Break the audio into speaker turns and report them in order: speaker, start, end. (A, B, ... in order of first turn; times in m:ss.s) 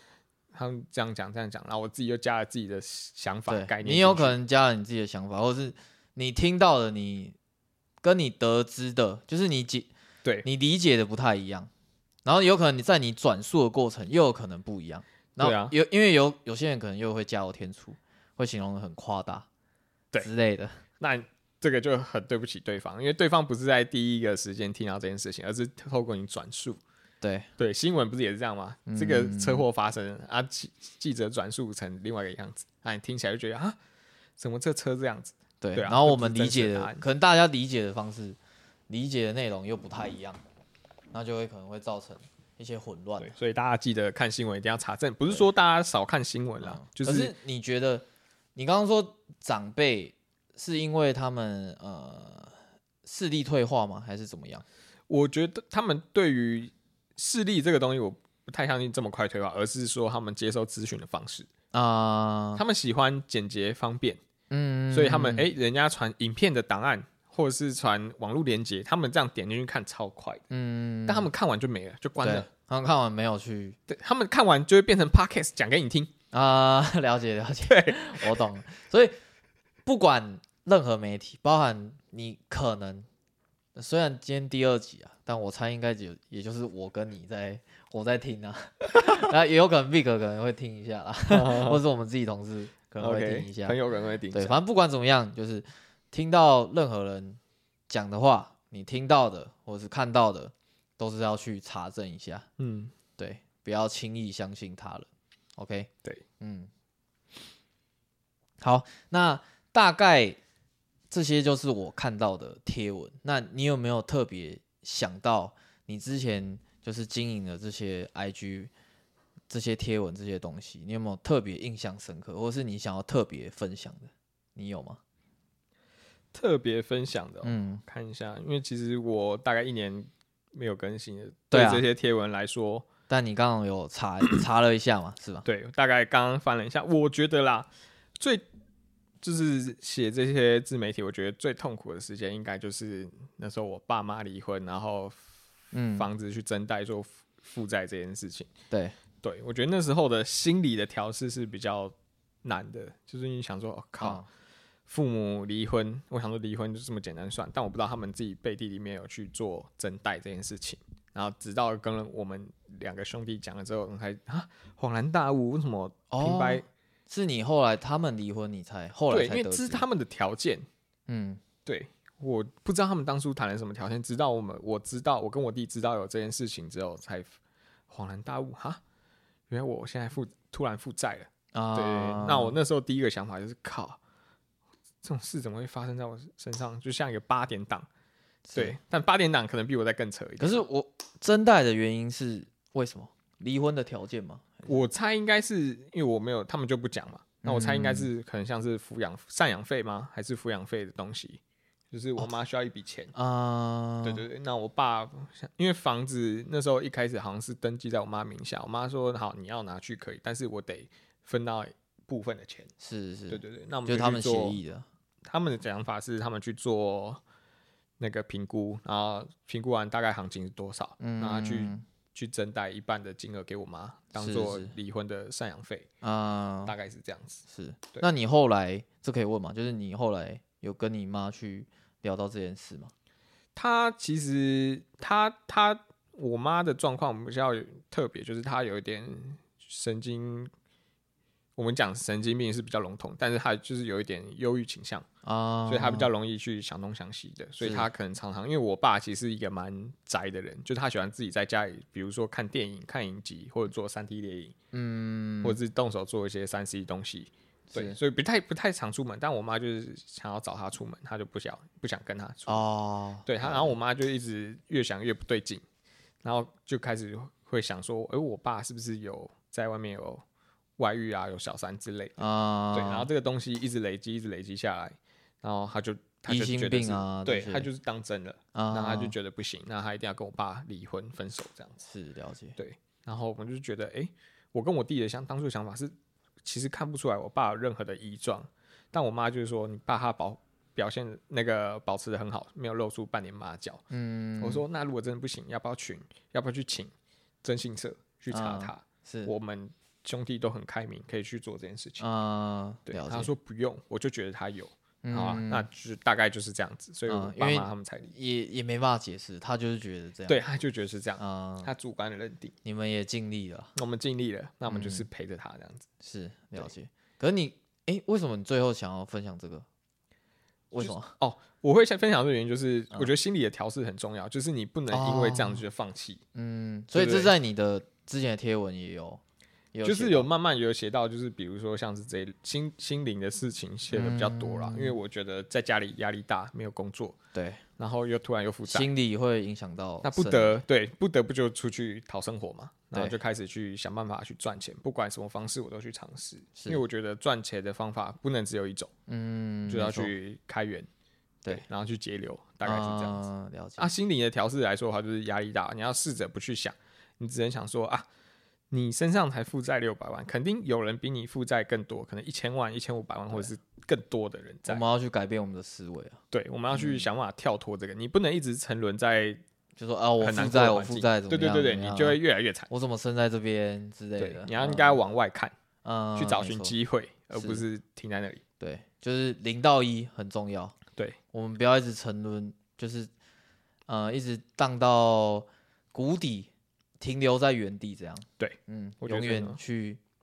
0:00.5-0:04.4 A
0:03.5-0:07.4 B
0:08.0-0:09.9 B
0:10.4-0:11.7 B
0:12.2-0:19.5 B
0:15.4-0:15.7 A
0:20.2-0:20.8 B
0:21.0-0:26.8 A
0:27.2-0:27.5 B
0:27.6-0:33.8 A
0:28.9-0:29.6 B
0:34.4-0:37.0 A
0:35.6-0:38.4 B
0:38.9-0:40.4 B
0:41.1-0:43.3 B
0:43.2-0:47.3 A
0:46.6-0:48.0 B
0:48.6-0:54.6 B
0:55.1-1:01.5 A
1:01.7-1:02.6 B
1:02.6-1:04.2 A
1:04.5-1:05.5 B
1:04.9-1:10.4 A
1:10.5-1:11.3 B
1:11.1-1:12.5 A
1:12.2-1:13.8 B
1:13.9-1:16.1 A
1:16.3-1:19.1 B
1:17.7-1:18.4 A
1:19.8-1:23.1 B
1:23.8-1:33.8 B
1:31.3-1:31.8 A
1:33.0-1:34.6 A
1:34.3-1:42.5 B
1:42.6-1:42.9 A
1:43.2-1:46.7 B
1:48.6-1:50.4 B
1:51.1-1:58.7 B
1:59.5-2:05.0 B
2:06.3-2:12.9 A
2:07.4-2:07.8 B
2:11.5-2:11.8 B
2:13.1-2:15.4 B
2:15.4-2:18.4 A
2:19.2-2:25.2 A
2:25.7-2:26.1 B
2:26.0-2:28.5 A
2:28.7-2:28.9 B
2:29.2-2:34.2 A
2:34.0-2:34.3 B
2:34.9-2:46.6 A
2:46.1-2:49.8 B
2:49.1-2:50.6 A
2:51.1-2:51.4 B
2:51.6-2:57.3 A
2:57.9-2:58.8 A
2:59.5-3:04.0 A
3:01.5-3:02.6 B
3:05.0-3:07.9 A
3:08.5-3:08.8 B
3:08.6-3:10.6 A
3:10.4-3:14.7 B
3:14.6-3:21.4 A
3:17.4-3:18.1 B
3:21.9-3:23.1 A
3:23.1-3:24.2 B
3:24.0-3:32.7 A
3:32.8-3:34.8 B
3:33.3-3:34.6 A
3:35.2-3:37.2 A
3:38.0-3:45.9 A
3:41.0-3:41.8 B
3:44.2-3:44.7 B
3:46.0-3:46.7 B
3:46.6-3:47.4 A
3:47.5-3:52.9 B
3:53.5-4:00.5 A
4:01.6-4:05.0 A
4:05.2-4:06.1 B
4:05.7-4:14.5 A
4:07.6-4:07.9 B
4:14.7-4:15.6 B
4:15.4-4:22.6 A
4:17.7-4:18.0 B
4:22.5-4:23.7 B
4:23.2-4:25.6 A
4:26.2-4:30.2 A
4:30.8-4:32.2 A
4:32.2-4:33.1 B
4:32.7-4:41.8 A
4:36.3-4:37.7 B
4:38.5-4:39.1 B
4:41.8-4:42.6 B
4:42.6-4:53.8 A
4:53.9-4:54.6 B
4:54.4-4:56.9 A
4:57.4-5:02.0 A
4:58.3-4:59.3 B
5:02.0-5:03.3 B
5:02.9-5:08.1 A
5:05.0-5:05.7 B
5:07.1-5:10.4 B
5:10.3-5:12.5 A
5:11.2-5:11.7 B
5:12.6-5:13.7 B
5:13.7-5:15.9 A
5:14.6-5:15.1 B
5:16.0-5:19.6 B
5:20.7-5:21.1 B
5:20.8-5:26.2 A
5:24.9-5:25.6 B
5:26.3-5:29.2 B
5:26.9-5:27.3 A
5:29.7-5:30.3 B
5:29.8-5:37.2 A
5:33.9-5:35.0 B
5:37.3-5:37.6 B
5:37.8-5:38.9 A
5:38.7-5:40.6 B
5:40.0-5:48.9 A
5:42.9-5:43.2 B
5:46.6-5:46.8 B
5:49.1-5:50.1 B
5:49.7-5:50.9 A
5:51.5-5:53.2 A
5:52.6-5:53.9 B
5:53.8-5:58.0 A
5:58.7-6:04.8 A
6:04.6-6:06.2 B
6:06.3-6:09.4 A
6:06.7-6:07.1 B
6:09.8-6:15.0 B
6:10.2-6:12.7 A
6:14.2-6:15.5 A
6:15.8-6:16.8 B
6:16.2-6:18.4 A
6:17.3-6:17.6 B
6:18.6-6:20.8 B
6:21.3-6:23.1 B
6:23.9-6:30.0 B
6:28.4-6:29.6 A